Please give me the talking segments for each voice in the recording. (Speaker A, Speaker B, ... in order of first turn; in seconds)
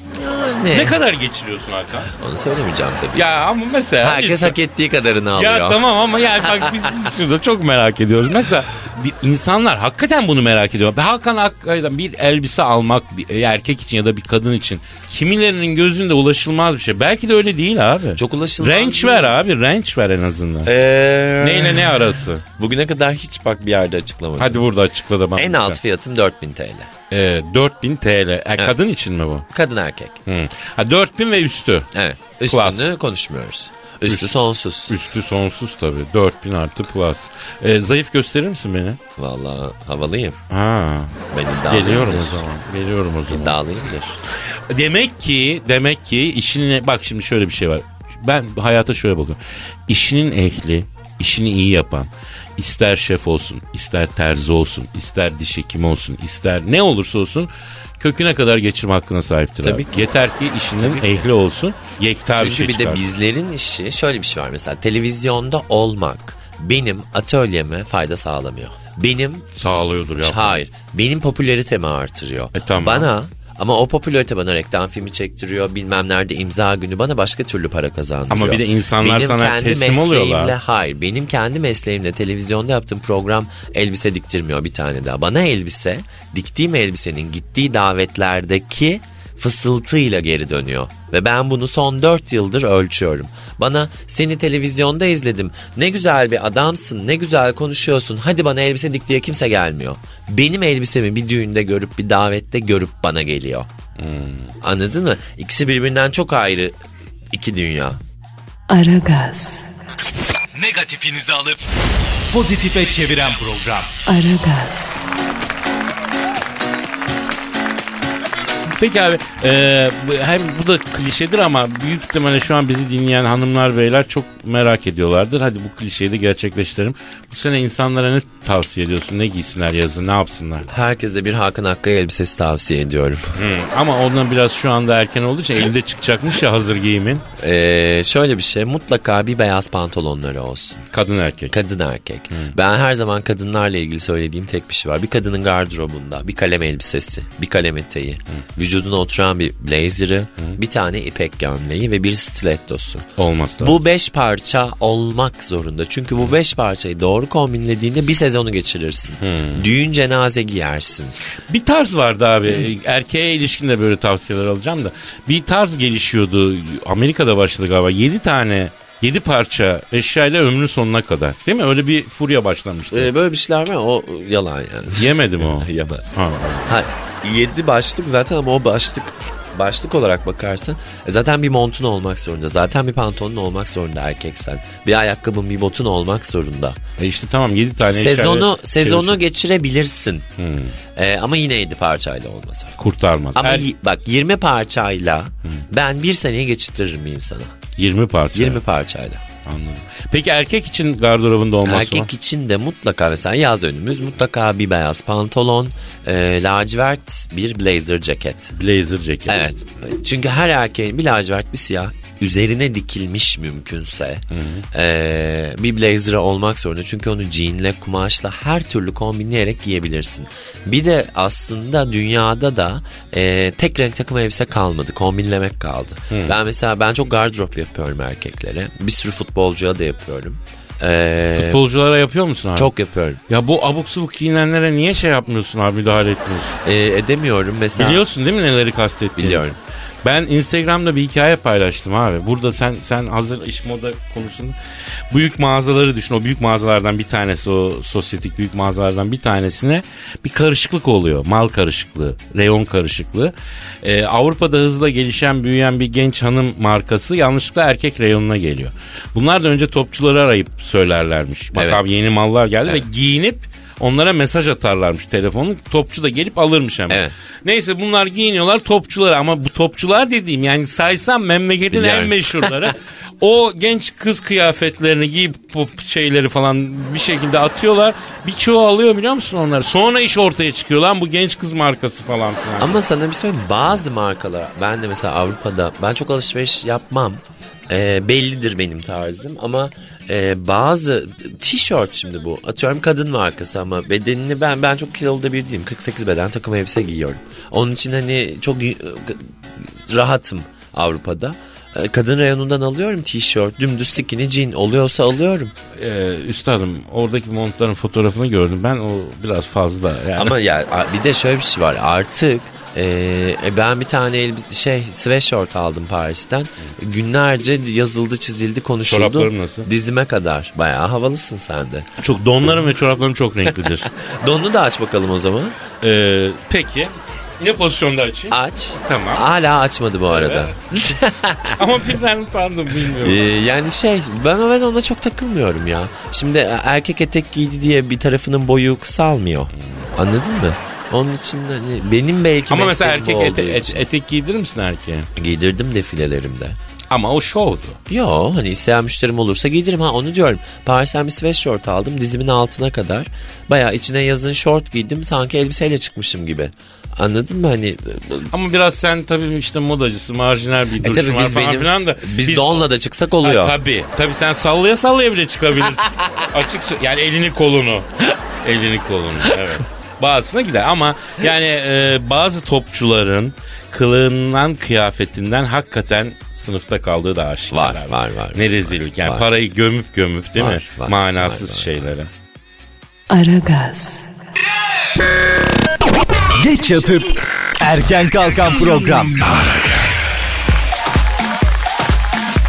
Speaker A: 0.1-1.0, 2.1-3.3, 4.0-5.8, 18.1-19.4, 20.6-22.0, 22.6-24.6, 25.4-26.9, 29.5-30.2, 31.9-34.9, 39.2-40.4, 41.3-42.4, 43.3-44.2, 59.6-60.1, 60.8-61.2, 62.4-69.5, 70.2-103.7, 104.6-106.7, 107.3-108.0, 130.7-133.3, 137.4-140.8, 141.5-153.1, 153.6-161.2, 172.9-176.1, 176.7-186.8, 187.9-190.2, 190.9-192.8, 193.3-197.5, 198.3-199.2, 201.6-208.5, 209.3-231.6, 232.5-233.2, 236.6-238.0, 239.2-239.6, 261.5-261.8, 271.7-272.5, 282.6-305.5, 310.2-321.9, 323.9-325.6, 328.3-331.6, 333.0-343.8, 345.1-346.6, 347.9-358.3, 360.8-363.6, 377.5-379.3, 380.3-381.8
Speaker B: 0.7-2.1, 3.1-4.6, 5.3-20.7, 21.4-22.4, 24.4-25.8, 27.1-29.5, 30.2-31.9, 32.5-33.0, 34.1-34.3, 34.9-39.0, 40.5-43.6, 44.4-63.0, 69.5-70.6, 72.5-73.1, 78.3-80.5, 104.0-104.5, 118.7-130.7, 133.3-137.2, 140.9-141.5, 153.2-153.8, 159.2-159.7, 161.5-173.1, 174.9-176.7, 187.0-189.2, 190.4-190.8, 192.8-193.7, 197.8-198.6, 199.4-202.1, 208.5-209.5, 214.3-214.6, 226.1-226.4, 231.3-232.7, 233.3-236.5, 237.8-239.4, 240.0-244.6, 245.1-282.8, 305.8-310.4, 318.9-319.7, 322.0-323.9, 325.8-329.2, 330.1-330.7, 331.6-333.3, 342.5-345.1, 346.9-347.8, 358.3-362.7, 363.2-367.9, 368.4-382.1
Speaker C: 108.7-109.7, 114.1-115.0, 383.1-384.1
Speaker D: 110.6-111.6, 112.3-114.0, 386.4-389.3